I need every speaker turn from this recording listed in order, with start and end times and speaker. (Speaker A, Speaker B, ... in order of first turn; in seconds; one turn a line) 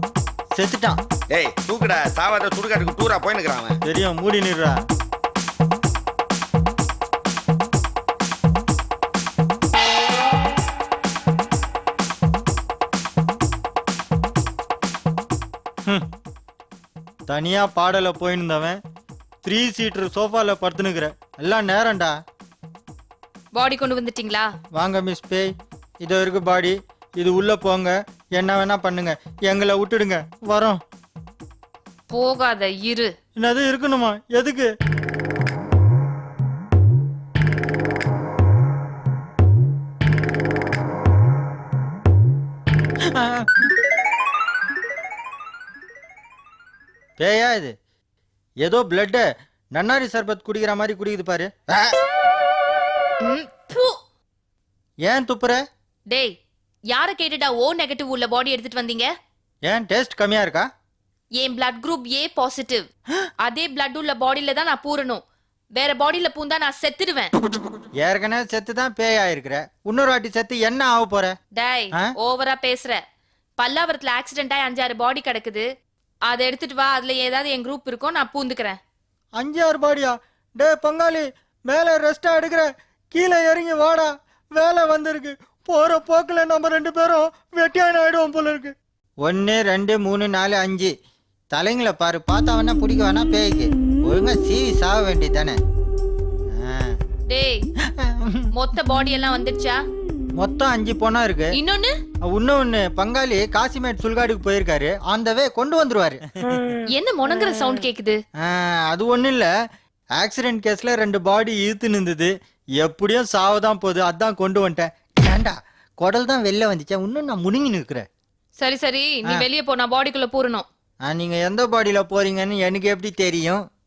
Speaker A: 0.5-1.0
Speaker B: 1.3-3.8
Speaker A: 3.8-4.8
Speaker A: 17.3-18.8
Speaker A: 19.4-22.1
Speaker C: 23.5-24.5
Speaker A: 24.8-25.5
Speaker A: 26.0-30.8
Speaker C: 32.1-33.1
Speaker A: 33.4-34.7
Speaker A: 43.1-43.5
Speaker A: 47.2-47.7
Speaker A: 48.6-52.0
Speaker C: 53.2-54.0
Speaker A: 55.0-55.6
Speaker C: 56.9-59.1
Speaker A: 59.7-60.7
Speaker C: 61.4-62.9
Speaker C: 63.4-65.2
Speaker C: 65.8-67.3
Speaker A: 68.0-71.3
Speaker C: 71.5-73.0
Speaker C: 73.6-75.6
Speaker C: 76.3-78.8
Speaker A: 79.4-90.9
Speaker A: 91.5-95.6
Speaker A: 96.5-97.0
Speaker C: 97.3-97.7
Speaker A: 98.0-98.5
Speaker C: 98.5-99.8
Speaker A: 100.4-101.5
Speaker C: 101.5-101.9
Speaker A: 102.3-106.6
Speaker C: 106.9-108.2
Speaker A: 108.4-109.5
Speaker A: 110.2-118.0
Speaker C: 118.6-120.7
Speaker A: 121.1-123.6